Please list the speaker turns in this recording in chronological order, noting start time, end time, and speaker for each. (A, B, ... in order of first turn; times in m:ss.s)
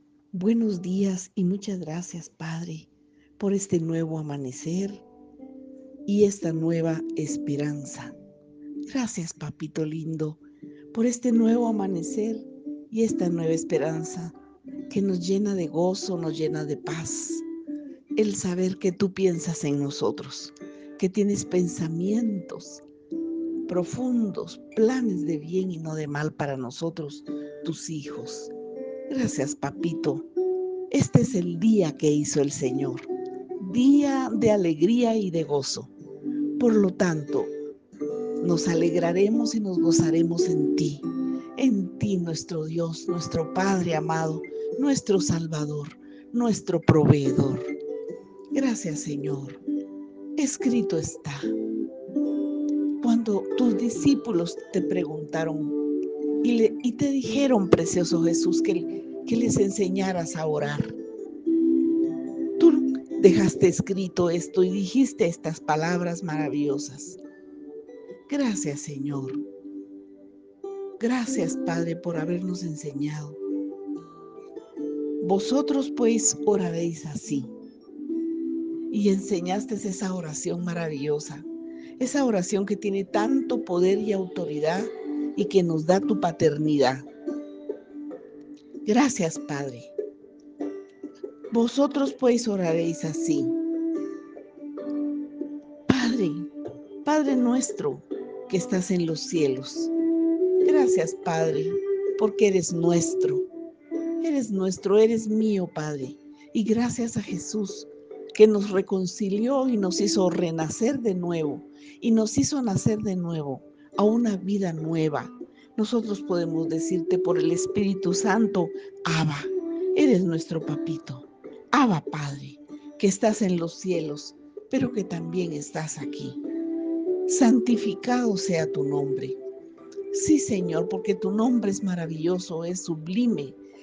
0:00.3-0:05.0 A
0:06.0-0:08.2 A
0:08.9-0:10.4 A
0:10.9-0:14.4 A
0:14.9-0:17.4 A
0:18.2-0:22.8 A
0:23.7-0:28.5 A
0:29.1-0:30.2 A
0:30.9-0:35.9 A
0:36.6-0:37.5 A
0:38.4-0:47.7 A
0:48.5-0:49.6 A
0:50.4-0:51.5 A
0:53.0-0:55.8 A
0:56.4-1:01.0 A
1:02.6-1:07.2 A
1:08.3-1:09.4 A
1:11.0-1:13.4 A
1:15.2-1:17.5 A
1:18.9-1:21.4 A
1:22.0-1:27.1 A
1:28.8-1:29.9 A
1:31.5-1:33.6 A
1:35.9-1:36.5 A
1:37.0-1:39.9 A
1:40.6-1:43.4 A
1:44.2-2:06.4 A
2:07.2-2:09.4 A
2:10.1-2:13.6 A